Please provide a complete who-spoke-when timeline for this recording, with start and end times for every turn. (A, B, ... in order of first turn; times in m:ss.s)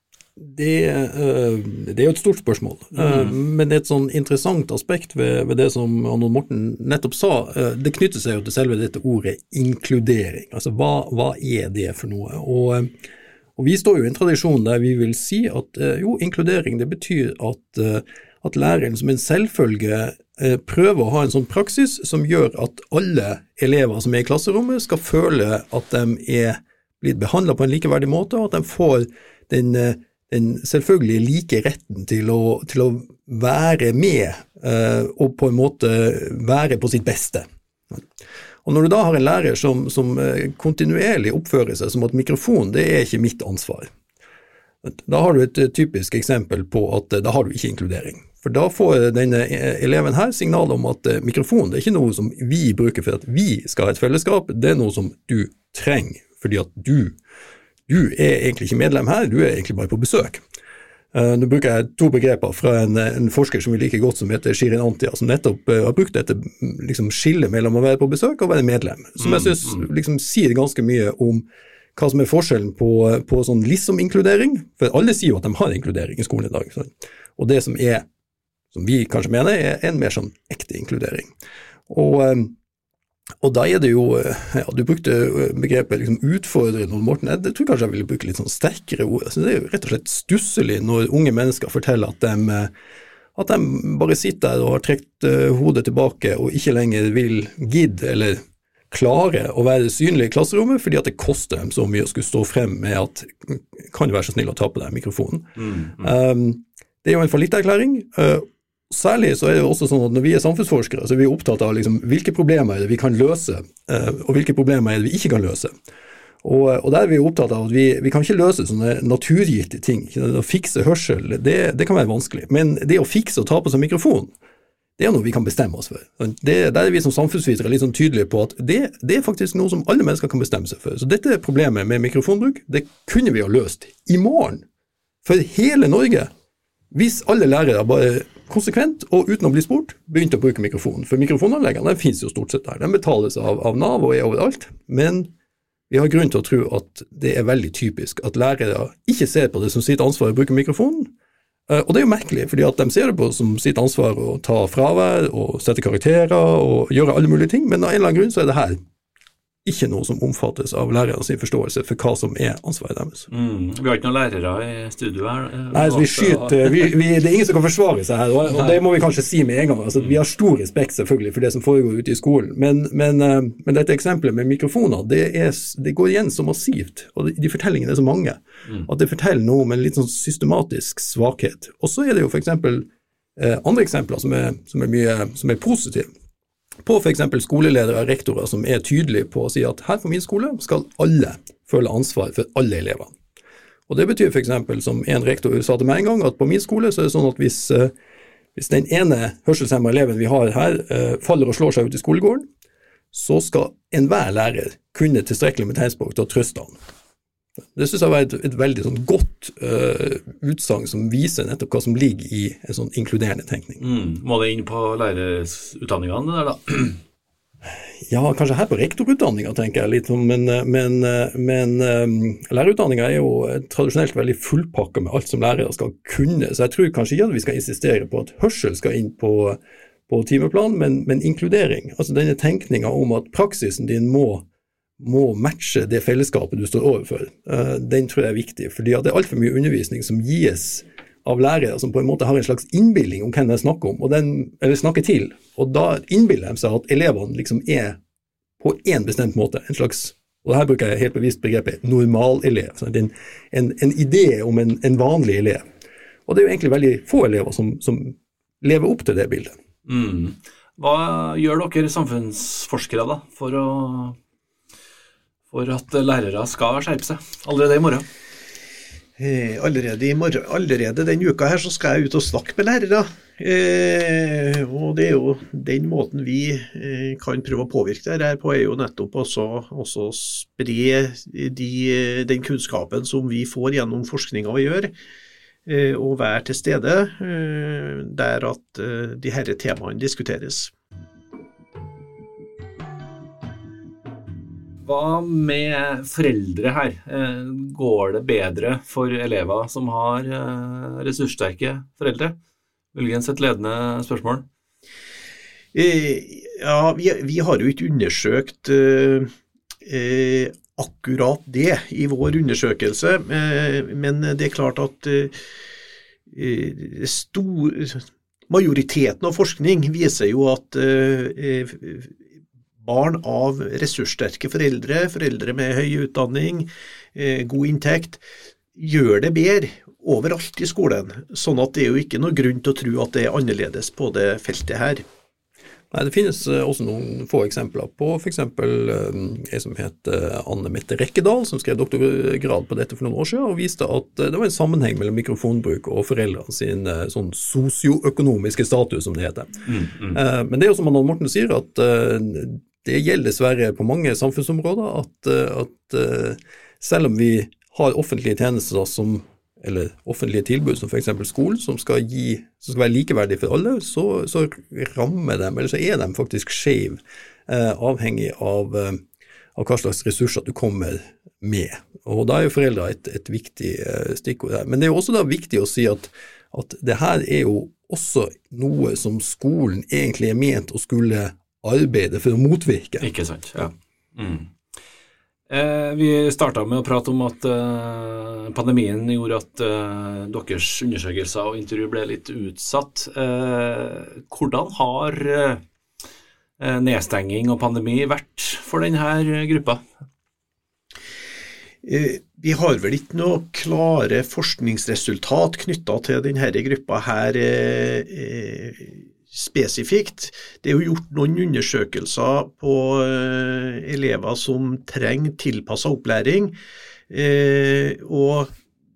0:00.4-0:12.9 A
0:03.0-0:03.3 B
0:13.6-0:38.0 A
0:38.6-0:43.9 A
0:44.8-0:57.2 A
0:57.9-1:00.4 A
1:01.1-1:11.4 A
1:09.2-1:09.8 B
1:12.0-1:18.1 A
1:18.7-1:21.3 A
1:21.9-1:22.6 A
1:23.4-1:32.7 A
1:33.4-1:55.7 A
1:45.6-1:46.1 B
1:56.4-2:04.3 A
2:05.0-2:14.6 A
2:15.2-2:16.3 A
2:16.9-2:25.3 A
2:25.9-2:31.1 A
2:31.7-2:38.8 A
2:39.6-2:43.3 A
2:43.3-2:46.9 B
2:45.7-3:06.1 A
2:48.5-2:48.8 B
3:06.8-3:13.2 A
3:13.9-3:17.9 A
3:18.6-3:22.5 A
3:23.1-3:26.8 A
3:27.8-3:33.8 A
3:33.8-3:37.0 B
3:38.0-3:54.4 A
3:55.0-4:08.0 A
4:08.6-4:15.7 A
4:16.3-4:19.6 A
4:19.9-4:24.2 B
4:25.5-4:28.1 B
4:29.2-4:44.9 C
4:45.6-4:50.7 C
4:54.8-5:02.4 B
5:02.9-5:04.4 B
5:05.7-5:09.3 C
5:09.8-5:15.4 C
5:16.3-5:22.2 C
5:22.8-5:28.2 C
5:28.8-5:35.0 C
5:35.9-6:09.0 A
5:49.7-5:50.2 B
6:09.6-6:23.1 A
6:23.0-6:24.5 B
6:25.5-6:35.6 B
6:36.6-6:39.8 B
6:41.8-6:56.6 C
6:57.1-6:58.5 C